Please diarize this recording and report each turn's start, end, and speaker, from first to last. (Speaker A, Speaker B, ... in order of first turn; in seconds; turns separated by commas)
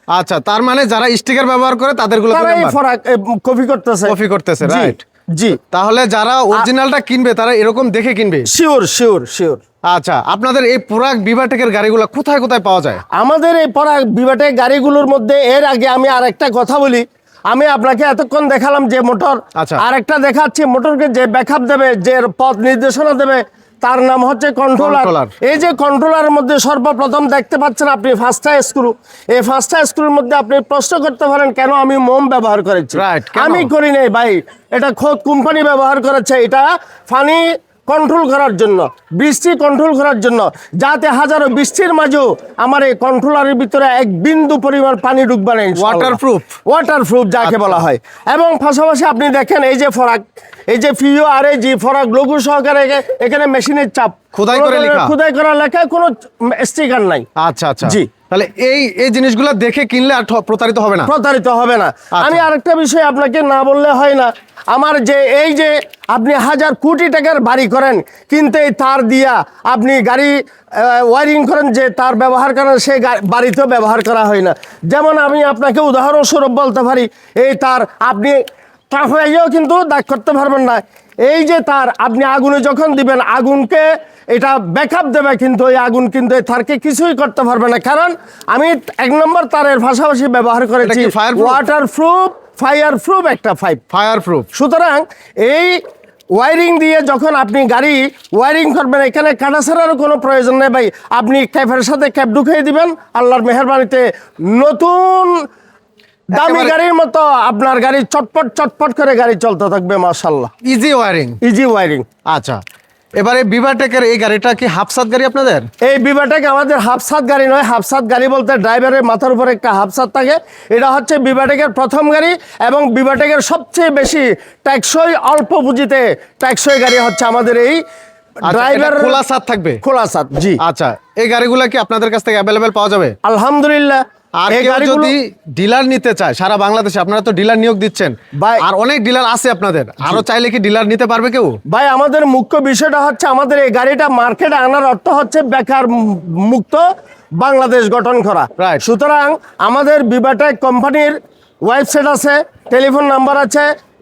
Speaker A: 0.1-2.8, Speaker B: 2.3-5.6, Speaker A: 4.1-5.0, Speaker A: 5.7-8.5, Speaker B: 8.5-9.6, Speaker A: 9.9-13.0, Speaker B: 13.1-57.3, Speaker A: 19.6-19.8, Speaker A: 24.8-25.3, Speaker A: 32.9-33.7, Speaker A: 45.8-46.5, Speaker A: 47.4-47.8, Speaker A: 54.3-55.1, Speaker A: 57.4-61.1, Speaker B: 57.8-58.1, Speaker B: 61.0-93.8, Speaker A: 62.1-62.4, Speaker A: 90.8-91.6, Speaker A: 93.9-94.5, Speaker B: 94.5-95.8, Speaker B: 96.3-105.5, Speaker B: 106.3-110.5, Speaker A: 106.3-106.7, Speaker A: 110.6-111.4, Speaker B: 111.4-112.1, Speaker A: 112.3-112.6, Speaker A: 113.2-115.7, Speaker B: 115.8-127.8, Speaker B: 128.4-129.2, Speaker A: 128.4-129.8, Speaker B: 129.8-130.6, Speaker A: 130.6-133.1, Speaker B: 133.2-134.0, Speaker A: 134.4-141.6, Speaker B: 134.5-135.1, Speaker B: 138.4-138.6, Speaker B: 141.7-146.8, Speaker B: 147.4-153.7, Speaker A: 148.6-148.8